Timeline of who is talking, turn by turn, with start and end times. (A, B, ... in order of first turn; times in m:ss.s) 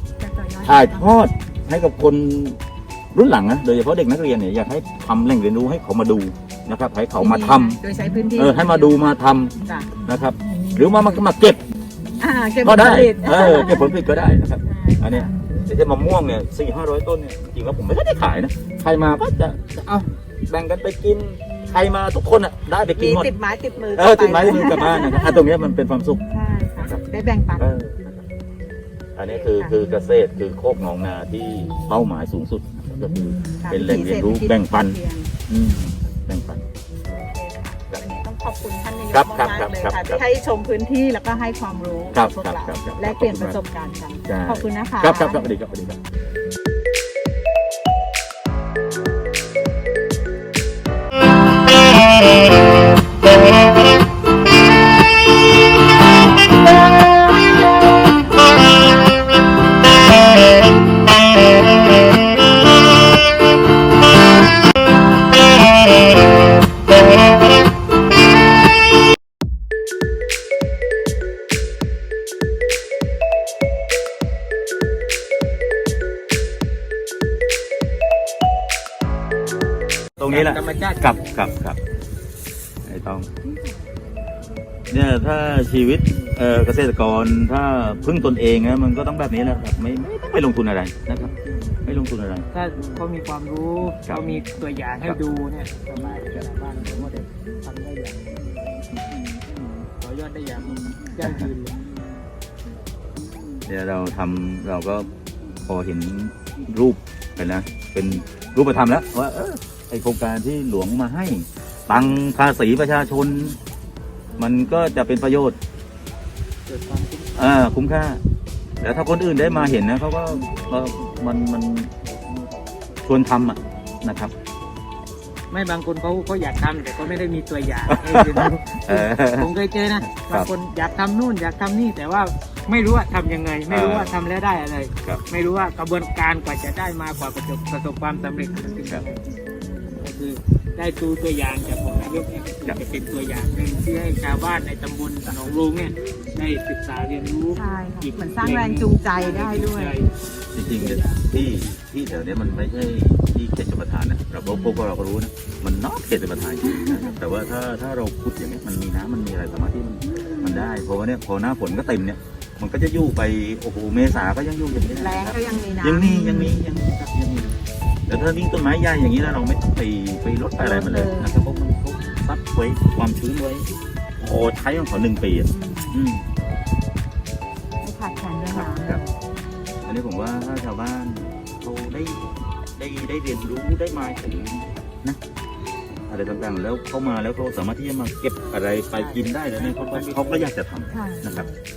0:00.2-0:01.2 A
0:00.6-0:02.6 B
0:03.1-0:07.8 B
0:07.2-0:09.1 A
0:08.4-0:11.6 B
0:09.6-0:09.9 A
0:12.1-0:14.0 A
0:12.6-0:23.3 B
0:14.6-0:15.3 A
0:21.4-0:21.8 A
0:23.0-0:25.4 A
0:23.9-0:26.2 B
0:26.3-0:27.7 A
0:27.6-0:28.2 B
0:29.2-0:36.6 B
0:29.3-0:29.8 A
0:33.6-0:35.3 A
0:37.1-0:45.5 A
0:39.1-0:40.2 B
0:42.1-0:43.6 B
0:44.3-0:46.0 B
1:20.2-1:21.8 B
1:20.3-1:21.4 C
1:22.8-1:23.3 B
1:24.9-1:32.5 B
1:32.5-1:38.3 C
1:40.0-1:41.8 C
1:43.7-1:45.1 B
1:45.6-1:53.6 B
1:54.4-1:55.6 B
1:56.7-1:57.4 C
1:57.4-1:58.2 B
1:58.8-2:01.9 B
2:03.0-2:04.3 B
2:05.5-2:19.2 C
2:07.9-2:09.5 B
2:10.2-2:10.5 B
2:13.7-2:14.2 B
2:20.0-2:31.3 C
2:27.5-2:30.0 A
2:30.5-2:47.5 B
2:34.5-2:34.9 A
2:36.6-2:37.2 A
2:40.0-2:40.7 A
2:44.7-2:46.5 A
2:48.1-2:56.3 B
2:50.6-2:51.3 A
2:55.4-2:56.0 A
2:57.8-2:59.2 A
2:58.5-2:59.0 B
2:59.8-3:02.2 B
3:02.8-3:05.2 B
3:06.1-3:11.5 B
3:08.9-3:10.5 C
3:10.9-3:11.6 A